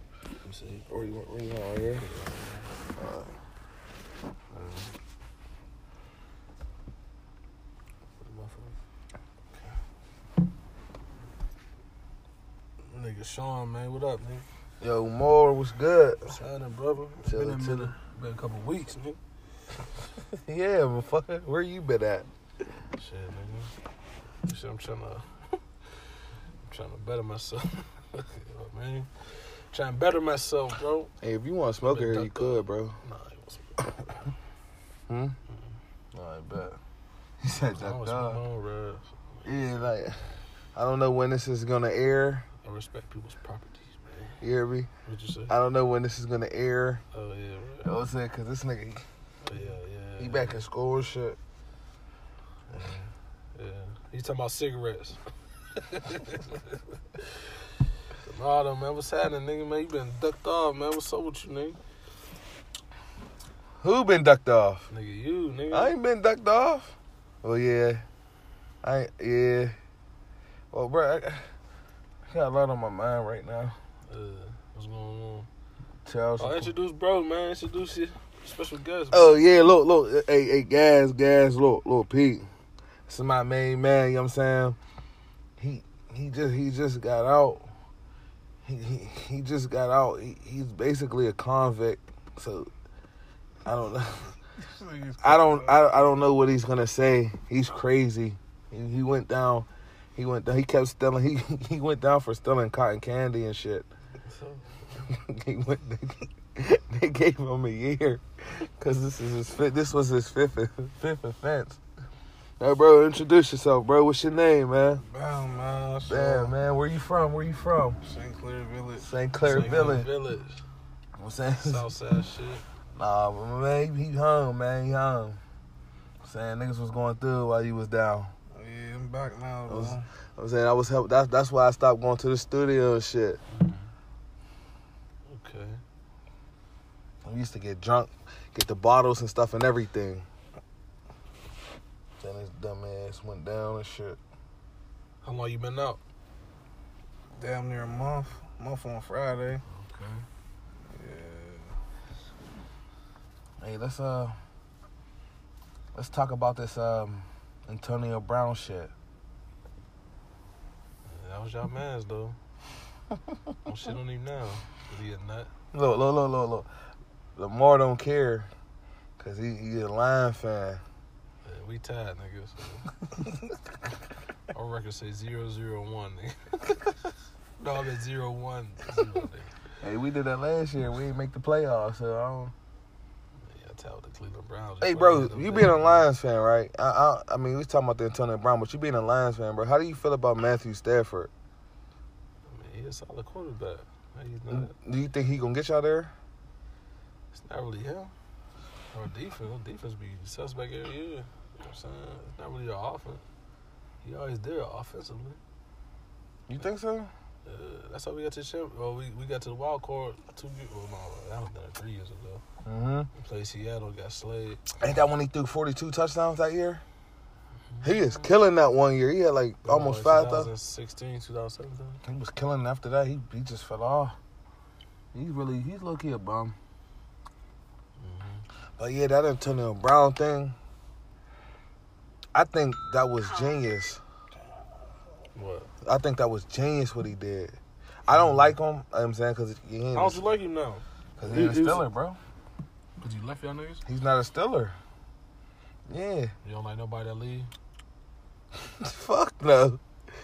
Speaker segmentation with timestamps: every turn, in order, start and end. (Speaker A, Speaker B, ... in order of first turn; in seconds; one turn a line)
Speaker A: 0.4-1.2
Speaker B: 0.9-2.1
Speaker A: 1.9-2.7
Speaker B: 3.0-3.3
Speaker A: 4.5-5.0
Speaker A: 8.2-8.8
Speaker A: 12.8-14.4
Speaker B: 14.8-16.4
Speaker A: 16.2-19.2
Speaker B: 17.2-17.9
Speaker B: 20.1-22.3
Speaker A: 22.9-23.7
Speaker A: 24.4-25.6
Speaker A: 26.7-31.1
Speaker B: 31.2-33.0
Speaker A: 31.9-34.0
Speaker B: 35.1-35.4
Speaker B: 36.1-36.8
Speaker B: 37.4-38.4
Speaker A: 37.7-39.6
Speaker B: 39.5-42.5
Speaker A: 42.6-44.4
Speaker B: 44.4-44.9
Speaker A: 45.0-45.5
Speaker B: 45.5-47.0
Speaker A: 47.1-48.0
Speaker B: 47.8-49.0
Speaker A: 49.4-50.7
Speaker B: 50.2-51.4
Speaker A: 52.7-55.2
Speaker A: 55.8-57.2
Speaker A: 58.2-61.8
Speaker B: 63.8-64.9
Speaker A: 64.9-65.9
Speaker B: 65.7-68.0
Speaker B: 68.8-69.8
Speaker B: 70.7-71.5
Speaker B: 72.3-73.8
Speaker A: 74.1-75.5
Speaker B: 76.0-76.8
Speaker A: 76.4-79.5
Speaker B: 79.1-82.5
Speaker B: 83.1-84.8
Speaker B: 85.6-87.7
Speaker B: 88.7-92.7
Speaker B: 93.7-94.3
Speaker C: 94.6-95.9
Speaker B: 95.2-103.9
Speaker A: 104.2-105.0
Speaker B: 105.0-111.8
Speaker B: 112.6-115.0
Speaker C: 115.0-116.5
Speaker B: 116.0-118.0
Speaker C: 118.0-119.1
Speaker B: 119.0-120.1
Speaker A: 119.4-120.6
Speaker B: 121.2-121.8
Speaker A: 121.6-122.6
Speaker B: 123.0-125.4
Speaker B: 126.2-128.3
Speaker C: 128.6-130.1
Speaker B: 129.7-133.4
Speaker A: 133.5-133.9
Speaker A: 135.3-135.8
Speaker B: 137.2-140.2
Speaker B: 142.2-144.2
Speaker A: 145.2-146.0
Speaker C: 147.4-149.6
Speaker A: 149.7-150.3
Speaker C: 150.9-151.7
Speaker B: 153.6-154.4
Speaker B: 155.9-158.9
Speaker A: 161.1-162.4
Speaker A: 163.7-165.5
Speaker B: 165.7-166.7
Speaker B: 167.4-168.5
Speaker B: 169.2-170.8
Speaker A: 171.4-172.9
Speaker A: 174.5-176.6
Speaker A: 177.6-179.5
Speaker B: 179.8-182.5
Speaker A: 183.4-186.1
Speaker B: 184.8-191.3
Speaker A: 192.5-194.7
Speaker B: 194.5-196.1
Speaker A: 197.3-198.1
Speaker A: 198.9-203.2
Speaker A: 204.0-205.4
Speaker B: 206.5-207.1
Speaker A: 207.4-212.4
Speaker B: 212.6-213.1
Speaker A: 213.2-214.7
Speaker B: 214.8-216.8
Speaker A: 217.8-218.3
Speaker B: 217.8-220.5
Speaker A: 219.7-222.0
Speaker B: 222.0-224.2
Speaker B: 225.1-226.6
Speaker A: 228.0-228.4
Speaker B: 228.8-230.6
Speaker B: 232.3-234.0
Speaker A: 235.3-235.7
Speaker B: 235.8-240.3
Speaker A: 238.1-238.6
Speaker A: 239.9-241.9
Speaker B: 241.2-242.2
Speaker A: 243.0-243.8
Speaker B: 243.8-244.8
Speaker B: 245.9-246.3
Speaker A: 246.4-247.5
Speaker B: 248.7-249.8